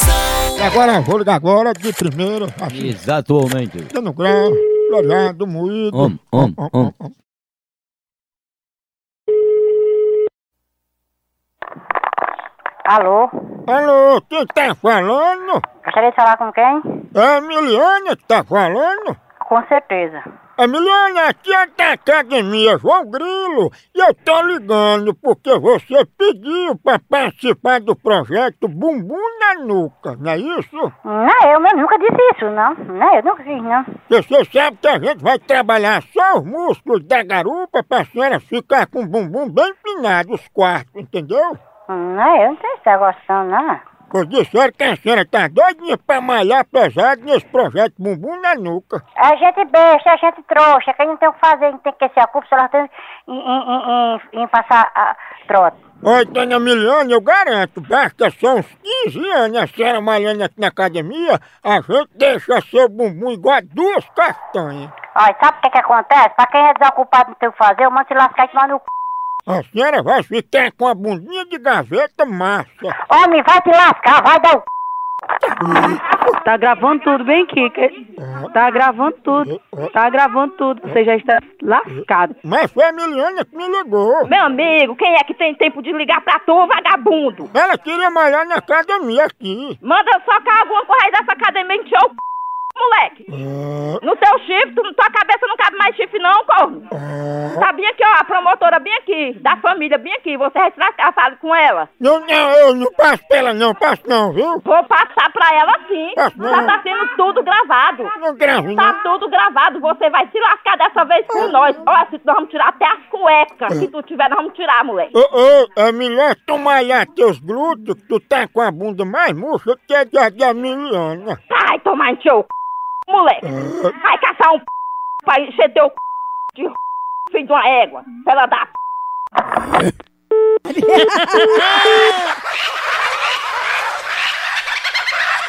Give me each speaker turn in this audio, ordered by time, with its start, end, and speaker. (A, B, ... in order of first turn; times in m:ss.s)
0:00.6-0:03.0 A
0:02.7-0:03.9 B
0:03.9-0:07.1 A
0:05.9-0:06.9 B
0:12.9-0:13.3 C
0:13.7-0:15.6 A
0:15.8-0:17.0 C
0:17.1-0:19.2 A
0:19.4-0:20.2 C
0:20.6-0:30.9 A
0:31.0-0:33.9 C
0:34.1-0:41.6 A
0:41.9-0:43.8 C
0:44.1-0:49.0 A
0:49.2-0:55.8 C
0:56.0-1:04.9 A
1:05.2-1:08.9 C
1:09.5-1:12.9 A
1:13.1-1:14.6 C
1:15.4-1:16.3 A
1:16.4-1:18.0 D
1:18.2-1:18.5 A
1:18.5-1:22.4 D
1:19.5-1:19.9 A
1:21.9-1:24.3 A
1:24.2-1:27.5 E
1:27.5-1:29.8 A
1:29.8-1:32.2 E
1:32.8-1:33.2 E
1:33.3-1:34.0 A
1:34.0-1:36.9 E
1:36.9-1:37.7 A
1:37.6-1:41.9 E
1:42.0-1:44.6 A
1:44.6-1:48.1 E
1:46.2-1:46.8 A
1:48.2-1:49.0 A
1:48.8-1:55.1 E
1:55.1-2:01.4 A
2:01.5-2:02.5 E
2:03.1-2:03.4 E
2:03.4-2:04.0 A
2:04.0-2:04.6 E
2:05.2-2:06.0 E
2:07.3-2:08.7 E